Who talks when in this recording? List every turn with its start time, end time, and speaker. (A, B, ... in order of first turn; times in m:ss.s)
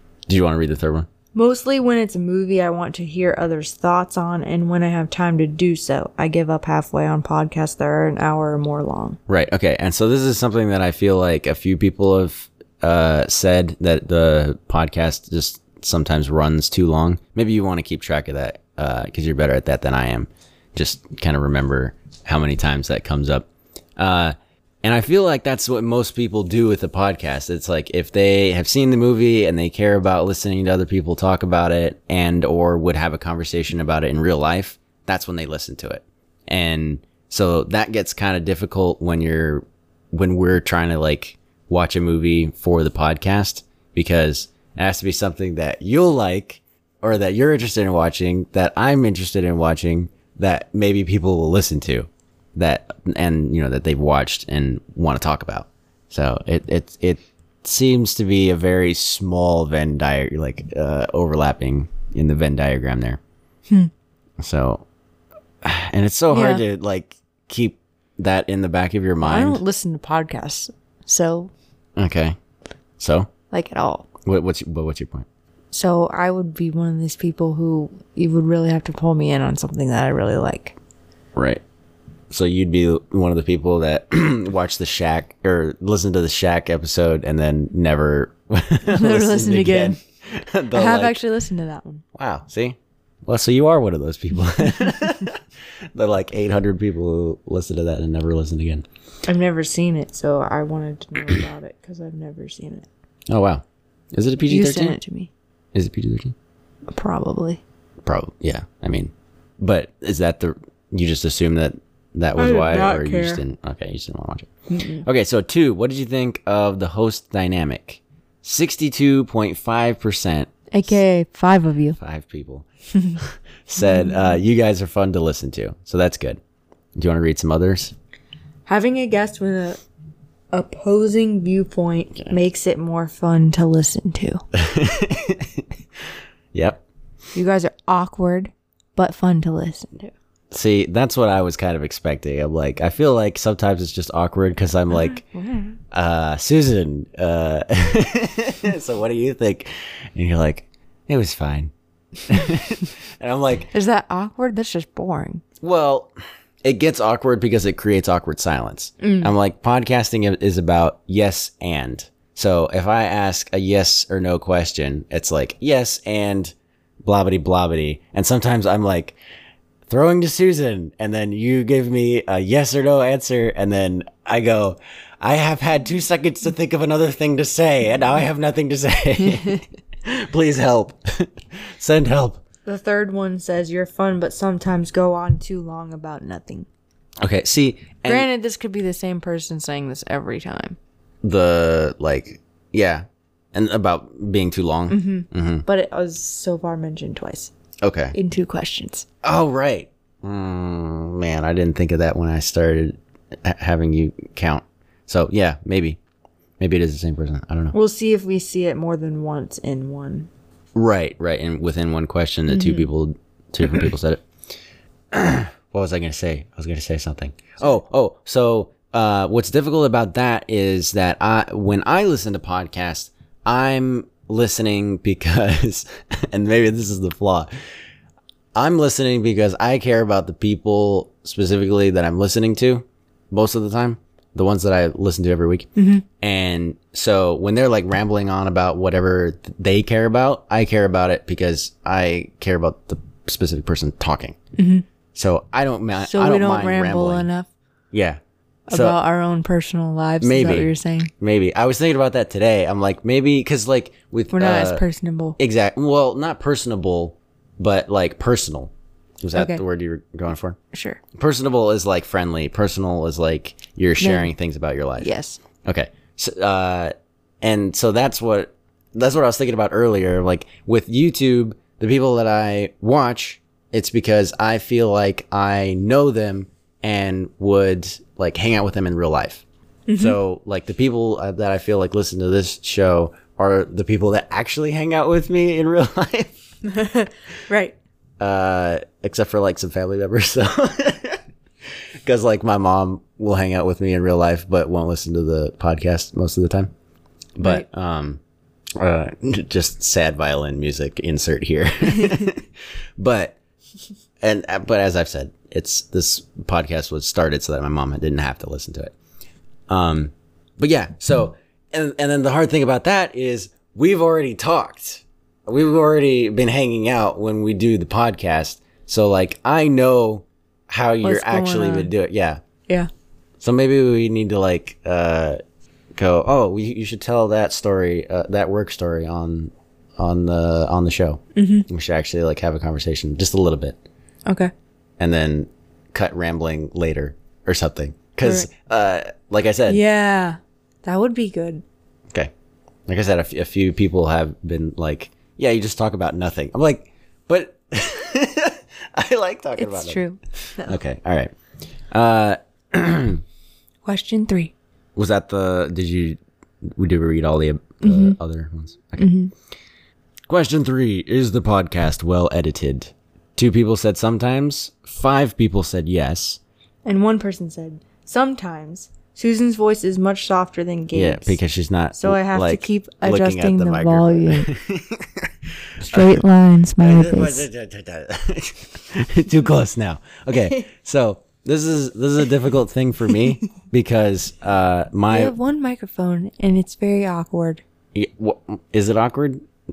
0:00.3-0:01.1 A
0:01.3-0:09.2 B
0:09.3-1:03.2 A
1:04.4-1:04.8 A
1:05.6-1:09.6 A
1:06.3-1:06.6 B
1:09.2-1:11.5 B
1:12.0-1:12.4 A
1:13.0-1:13.3 A
1:13.5-1:14.1 B
1:14.2-1:15.2 A
1:15.7-1:20.8 B
1:21.4-1:21.6 A
1:22.3-1:31.2 A
1:28.8-1:30.0 B
1:30.7-1:32.0 B
1:32.1-1:35.4 A
1:35.9-1:38.8 A
1:39.2-1:42.9 B
1:43.3-1:45.0 A
1:44.5-1:45.3 B
1:45.7-1:46.3 A
1:46.9-1:47.6 B
1:48.0-1:54.5 A
1:52.4-1:53.4 B
1:54.7-1:55.0 B
1:55.0-2:01.0 A
2:00.7-2:02.0 B
2:02.0-2:06.4 A
2:02.9-2:03.2 B
2:03.8-2:04.4 B
2:07.0-2:07.9 A
2:08.7-2:09.8 B
2:10.5-2:14.4 B
2:14.5-2:15.6 A
2:16.5-2:16.8 A
2:17.3-2:20.1 B
2:20.5-2:25.2 A
2:24.9-2:25.8 B
2:25.9-2:31.7 A
2:32.2-2:33.7 A
2:33.7-2:35.4 B
2:35.6-2:36.1 A
2:36.6-2:46.5 A
2:39.0-2:39.3 B
2:47.0-2:49.2 A
2:49.9-3:02.4 A
3:02.7-3:06.7 B
3:07.2-3:08.3 A
3:08.0-3:10.8 B
3:11.2-3:15.7 A
3:14.9-3:17.5 B
3:17.8-3:18.2 A
3:18.1-3:19.0 B
3:19.2-3:26.0 A
3:26.6-3:27.7 A
3:27.7-3:30.3 B
3:30.7-3:34.2 A
3:32.5-3:32.9 B
3:35.1-3:47.5 A
3:48.5-3:55.7 A
3:55.8-3:56.0 B
3:56.2-4:04.4 A
4:04.6-4:04.8 B
4:05.2-4:07.3 A
4:06.0-4:07.5 B
4:07.9-4:09.0 A
4:08.7-4:11.1 B
4:10.2-4:14.8 A
4:14.3-4:15.4 B
4:15.4-4:18.7 A
4:19.2-4:20.6 A
4:19.3-4:19.6 B
4:20.7-4:21.0 B
4:21.1-4:25.1 A
4:24.0-4:24.3 B
4:25.0-4:25.4 B
4:25.6-4:39.4 A
4:39.9-4:40.2 B
4:40.0-4:46.4 A
4:46.6-4:47.8 B
4:48.2-4:51.2 A
4:52.0-4:56.7 A
4:57.4-4:58.2 A
4:57.4-4:57.6 B
4:58.8-5:03.4 A
5:04.2-5:08.9 A
5:09.7-5:22.4 A
5:21.0-5:21.9 B
5:23.4-5:25.4 A
5:26.0-5:33.8 A
5:31.4-5:31.7 B
5:34.2-5:34.5 B
5:35.0-5:39.8 A
5:38.2-5:38.5 B
5:39.7-5:41.6 B
5:42.9-5:51.3 A
5:49.6-5:50.8 B
5:51.9-5:53.2 A
5:53.8-5:54.5 B
5:55.0-5:59.1 A
5:57.8-5:58.2 B
5:59.0-5:59.3 B
6:00.3-6:06.4 A
6:06.8-6:11.4 B
6:10.9-6:16.2 A
6:12.0-6:14.5 B
6:15.8-6:17.5 B
6:16.8-6:25.3 A
6:25.1-6:27.6 B
6:28.0-6:29.5 A